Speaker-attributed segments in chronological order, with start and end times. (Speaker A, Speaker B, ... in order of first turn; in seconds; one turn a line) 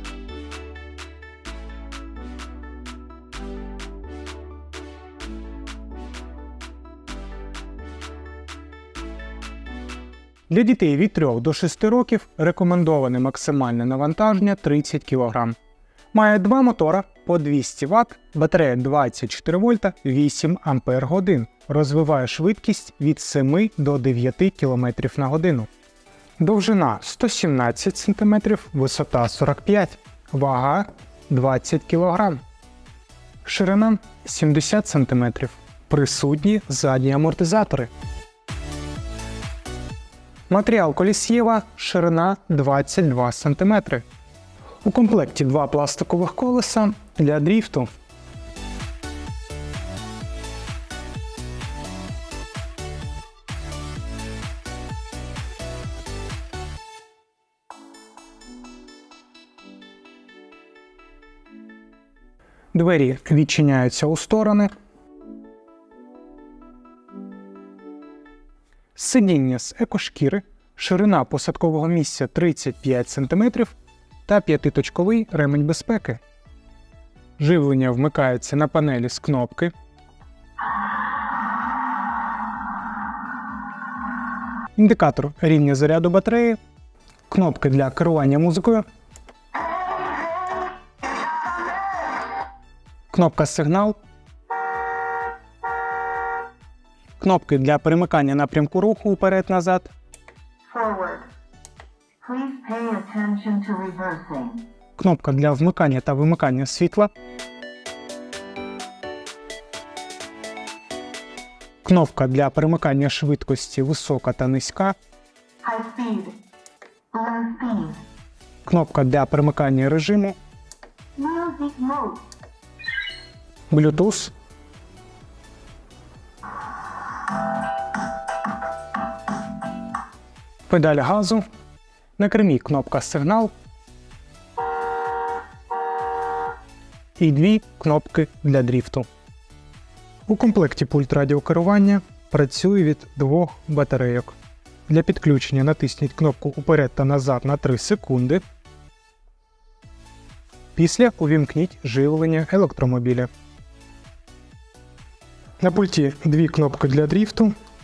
Speaker A: 10.5-15.6
Speaker A: 16.1-25.7
Speaker A: 26.4-32.4
Speaker A: 33.4-37.9
Speaker A: 40.5-44.0
Speaker A: 44.8-47.9
Speaker A: 62.7-64.7
Speaker A: 69.0-76.2
Speaker A: 77.4-79.7
Speaker A: 84.8-86.6
Speaker A: 87.3-88.8
Speaker A: 93.1-94.0
Speaker A: 97.2-99.9
Speaker B: 100.7-101.3
Speaker B: 102.2-104.6
Speaker A: 105.0-107.1
Speaker A: 111.8-114.9
Speaker B: 115.6-116.4
Speaker B: 117.1-118.0
Speaker A: 118.7-120.4
Speaker B: 121.2-122.2
Speaker A: 123.7-124.3
Speaker A: 130.7-131.4
Speaker A: 132.2-133.5
Speaker A: 137.2-139.1
Speaker A: 140.3-144.3
Speaker A: 144.9-148.4
Speaker A: 150.7-153.3
Speaker A: 155.6-157.5